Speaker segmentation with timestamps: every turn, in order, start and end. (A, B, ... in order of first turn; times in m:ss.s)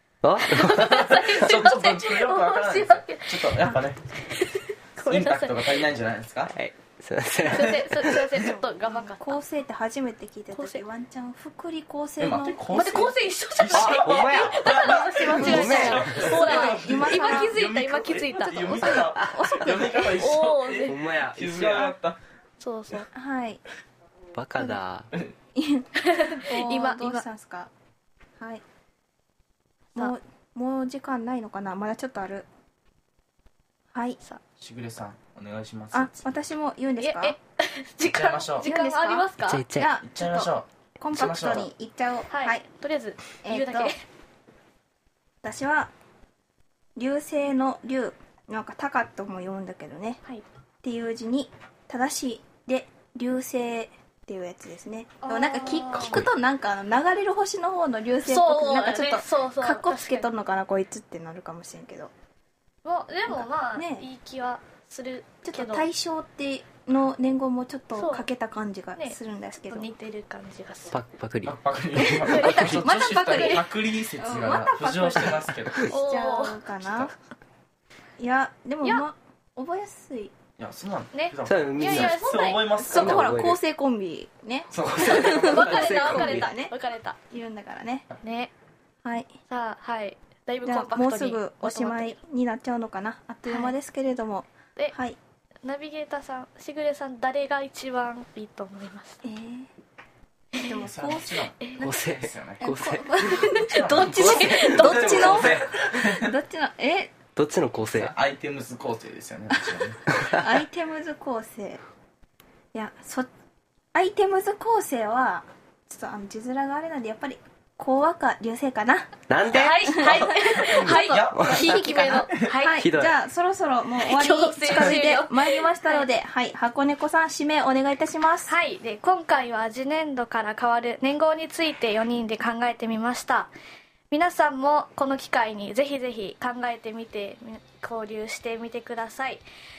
0:00.2-0:01.1 A
0:00.4-0:03.5 B
0:01.1-0:04.0 C
0:04.3-0:05.8 B
0:05.0-0:06.5 C
0:06.5-0:08.2 A
0:07.5-0:09.4 B
0:08.4-0:13.1 D
0:10.5-0:10.8 B
0:12.2-0:22.2 C
0:12.7-0:19.0 B
0:13.7-0:14.7 A
0:14.8-0:17.6 D
0:15.2-0:16.3 A
0:18.5-0:20.2 D
0:20.2-0:21.0 B
0:20.9-0:21.9 A
0:22.6-0:23.1 B
0:23.1-0:23.6 D
0:24.3-0:25.1 A
0:25.6-0:27.7 D
0:26.0-0:27.2 B
0:29.9-0:32.5 D
0:33.9-0:34.2 D
0:34.6-0:36.2 C
0:35.9-0:37.4 D
0:37.0-0:39.6 B
0:38.0-0:38.7 C
0:38.6-0:42.6 D
0:39.4-0:39.9 A
0:40.0-0:41.7 C
0:42.3-0:44.0 B
0:43.4-0:43.9 D
0:45.4-0:45.9 D
0:47.0-0:50.2 D
0:50.8-1:02.1 D
0:55.2-0:56.2 B
0:55.9-0:56.3 A
0:58.2-1:00.3 B
1:02.8-1:05.8 B
1:03.3-1:04.1 D
1:05.4-1:09.9 D
1:07.9-1:08.3 B
1:09.7-1:10.9 B
1:10.9-1:12.8 A
1:11.4-1:15.9 C
1:12.2-1:13.6 B
1:12.5-1:17.1 D
1:15.9-1:16.7 B
1:18.2-1:20.4 D
1:20.6-1:23.3 C
1:21.1-1:22.6 B
1:21.5-1:22.1 A
1:22.7-1:26.7 D
1:22.9-1:23.6 A
1:24.7-1:26.5 C
1:25.2-1:27.2 B
1:25.8-1:26.2 A
1:27.3-1:28.1 D
1:28.2-1:28.5 B
1:29.5-1:32.2 B
1:30.6-1:35.2 D
1:33.5-1:33.7 B
1:35.6-1:39.2 B
1:39.2-1:39.7 D
1:40.6-1:40.8 B
1:40.6-1:41.5 D
1:40.7-1:42.6 C
1:41.8-1:45.3 A
1:42.6-1:47.1 D
1:43.5-1:46.3 C
1:43.7-1:45.3 B
1:47.4-1:48.1 A
1:47.9-1:50.1 C
1:49.5-1:51.8 D
1:52.7-1:53.3 D
1:53.9-1:59.1 D
1:59.3-1:59.9 A
1:59.5-2:02.8 B
1:59.8-2:08.5 D
2:00.4-2:02.3 C
2:01.3-2:01.8 A
2:02.8-2:03.1 A
2:04.0-2:06.1 B
2:08.5-2:13.5 B
2:14.1-2:19.4 B